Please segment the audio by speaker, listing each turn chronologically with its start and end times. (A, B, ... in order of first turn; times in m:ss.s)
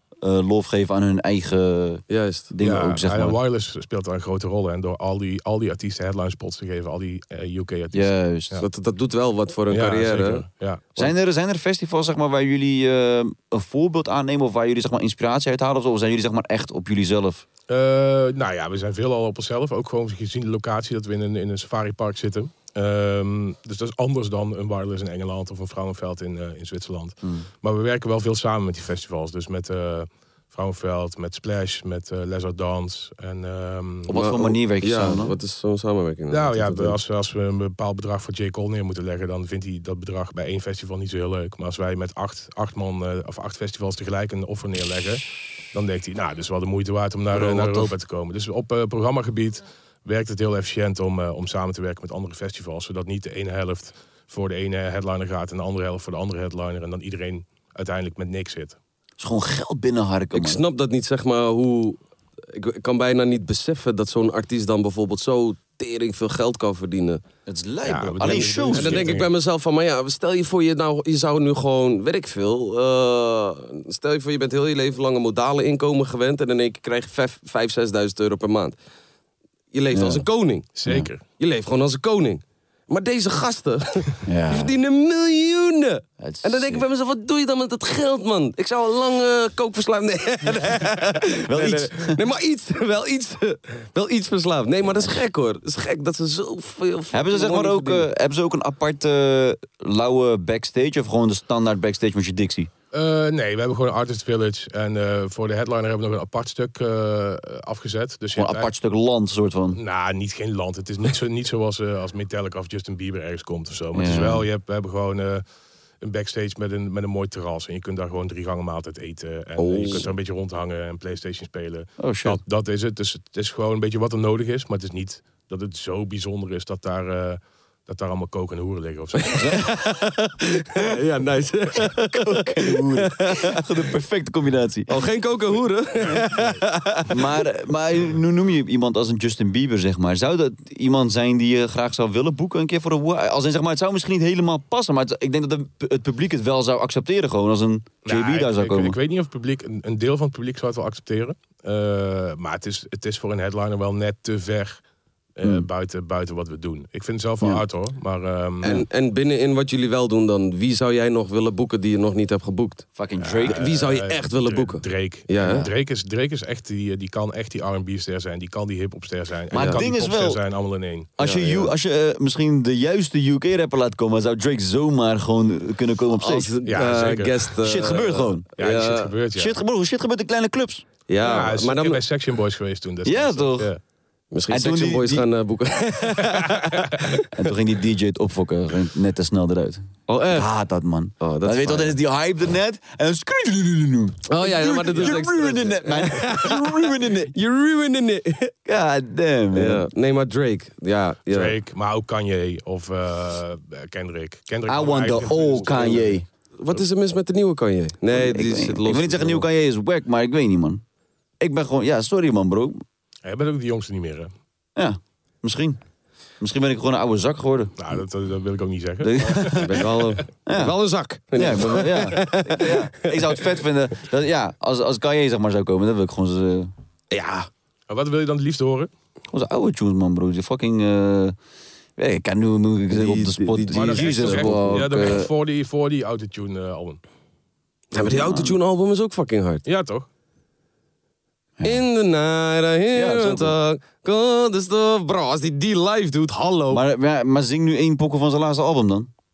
0:00.2-0:03.4 A
0:02.1-0:02.5 B
0:02.6-0:08.7 C
0:07.9-0:08.6 A
0:08.6-0:10.4 B
0:09.7-0:10.8 C
0:11.0-0:17.4 A
0:17.7-0:34.2 C
0:27.2-0:27.5 A
0:34.1-0:35.4 A
0:34.1-0:37.0 B
0:36.3-0:58.8 C
0:47.3-0:47.9 A
0:59.2-1:00.6 A
1:00.3-1:07.2 B
1:07.5-1:09.1 A
1:07.8-1:09.3 C
1:08.2-1:18.8 B
1:19.7-1:20.7 B
1:19.9-1:20.3 A
1:20.8-1:21.2 C
1:21.4-1:38.1 B
1:24.2-1:24.7 A
1:26.2-1:26.8 A
1:31.5-1:32.2 A
1:37.1-1:42.7 A
1:42.9-1:48.7 C
1:48.3-1:49.8 A
1:49.7-1:55.4 C
1:53.9-1:54.5 A
1:56.0-2:09.4 C
1:59.6-2:00.1 B
2:02.0-2:02.4 A
2:09.4-2:13.6 B
2:09.4-2:09.6 A
2:12.1-2:14.9 A
2:14.9-2:17.4 B
2:16.1-2:16.6 C
2:17.1-2:29.0 A
2:28.1-2:34.8 C
2:35.4-2:38.8 C
2:35.4-2:35.7 A
2:38.6-2:42.9 B
2:43.0-2:43.7 A
2:43.2-2:51.2 C
2:43.4-2:45.7 B
2:49.5-2:50.4 A
2:49.5-2:49.8 B
2:51.2-2:56.5 A
2:51.2-2:51.7 B
2:56.2-2:59.1 B
2:56.7-2:57.5 C
2:57.6-2:58.5 A
2:58.6-2:59.6 C
2:59.3-3:00.8 A
3:01.1-3:02.0 B
3:01.2-3:03.8 C
3:03.0-3:03.7 A
3:04.3-3:06.9 B
3:04.5-3:05.3 A
3:07.3-3:17.3 A
3:10.1-3:10.5 B
3:11.2-3:12.0 B
3:14.3-3:18.5 B
3:18.7-3:19.9 A
3:19.5-3:21.5 B
3:21.3-3:26.8 C
3:24.7-3:26.3 A
3:26.6-3:29.5 B
3:28.1-3:30.8 A
3:31.4-3:32.8 A
3:33.2-3:34.3 C
3:34.8-3:35.8 A
3:36.4-3:37.8 A
3:37.8-3:40.0 C
3:39.0-3:39.8 A
3:39.6-3:43.4 B
3:40.5-3:40.7 A
3:41.3-3:46.7 A
3:47.1-3:47.5 B
3:47.9-3:48.9 C
3:49.3-3:51.4 A
3:52.0-3:55.3 A
3:52.9-3:55.1 B
3:53.7-3:57.0 C
3:57.9-3:59.6 B
3:58.0-3:58.6 A
3:59.6-4:00.1 C
4:01.6-4:01.9 A
4:01.6-4:06.8 B
4:02.9-4:03.6 A
4:06.7-4:09.1 A